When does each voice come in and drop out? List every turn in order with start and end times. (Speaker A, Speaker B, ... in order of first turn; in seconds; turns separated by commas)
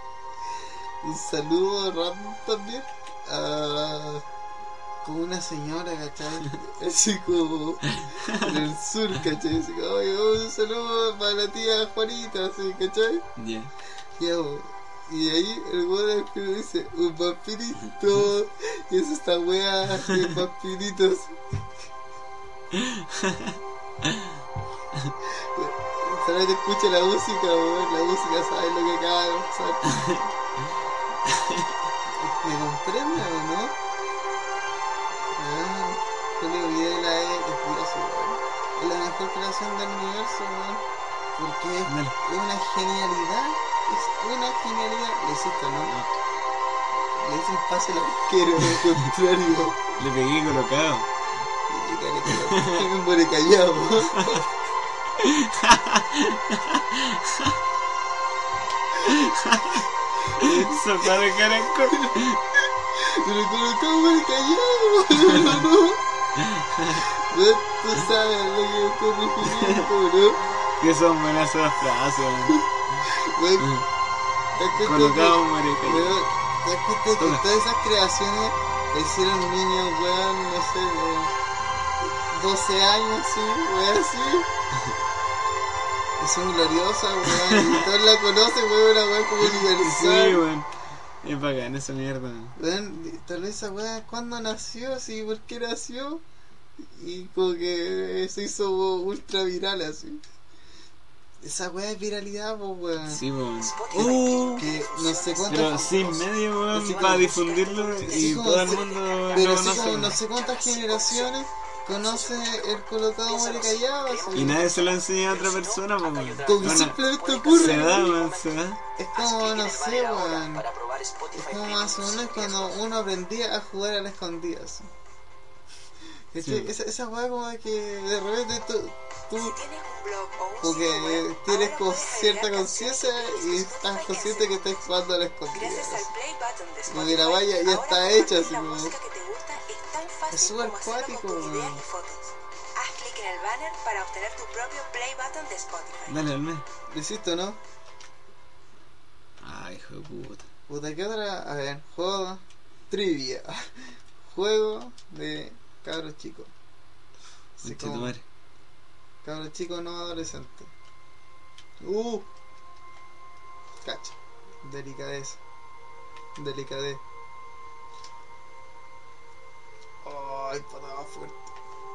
Speaker A: 1.0-4.2, Speaker A: 5.0-13.2, Speaker B: 7.9-8.7, Speaker B: 13.3-13.7, Speaker A: 14.2-21.4, Speaker B: 17.9-18.2, Speaker B: 20.0-20.3, Speaker B: 22.7-25.1, Speaker A: 25.2-30.2, Speaker B: 29.9-30.7, Speaker B: 31.2-31.7, Speaker A: 32.0-33.8, Speaker A: 35.3-40.8, Speaker A: 41.4-45.9, Speaker B: 41.9-42.1, Speaker B: 45.7-46.1, Speaker A: 47.1-49.9, Speaker B: 48.6-49.0, Speaker B: 50.0-51.1, Speaker A: 51.7-54.5, Speaker B: 52.2-52.9, Speaker B: 54.1-54.4, Speaker B: 55.2-57.6, Speaker B: 58.9-62.4, Speaker A: 60.3-62.2, Speaker A: 62.9-66.0, Speaker B: 65.3-65.6, Speaker B: 66.3-67.0, Speaker A: 67.0-70.4, Speaker B: 69.4-69.9, Speaker B: 70.8-73.0, Speaker A: 73.0-73.7, Speaker B: 73.6-73.9, Speaker A: 74.5-81.3, Speaker B: 74.7-76.2, Speaker B: 77.2-77.4, Speaker A: 82.0-84.5, Speaker A: 86.2-90.4, Speaker B: 87.2-87.8, Speaker B: 89.4-90.7, Speaker B: 91.2-92.5, Speaker A: 92.5-96.2, Speaker A: 96.8-100.2, Speaker A: 101.4-103.2, Speaker B: 103.0-104.7, Speaker C: 103.7-106.2, Speaker A: 103.9-107.4, Speaker B: 105.5-110.2, Speaker D: 106.8-107.9, Speaker C: 107.3-109.5, Speaker A: 108.0-114.6, Speaker D: 108.6-109.6, Speaker C: 110.2-110.8, Speaker D: 110.4-111.3, Speaker D: 111.9-123.0, Speaker B: 114.3-118.8, Speaker A: 116.4-118.1, Speaker A: 119.0-120.7, Speaker A: 121.3-124.9, Speaker A: 126.3-129.6, Speaker B: 126.4-126.7, Speaker C: 129.3-134.9, Speaker A: 130.6-136.1, Speaker C: 135.5-146.2, Speaker A: 136.9-139.0, Speaker A: 140.3-141.8, Speaker B: 146.1-146.7, Speaker A: 146.9-147.6, Speaker B: 149.4-150.5, Speaker A: 150.7-156.5, Speaker B: 157.6-158.2, Speaker A: 157.6-158.2, Speaker A: 159.2-160.7, Speaker A: 161.8-162.3, Speaker A: 163.8-165.4, Speaker A: 166.3-167.0, Speaker A: 170.0-171.5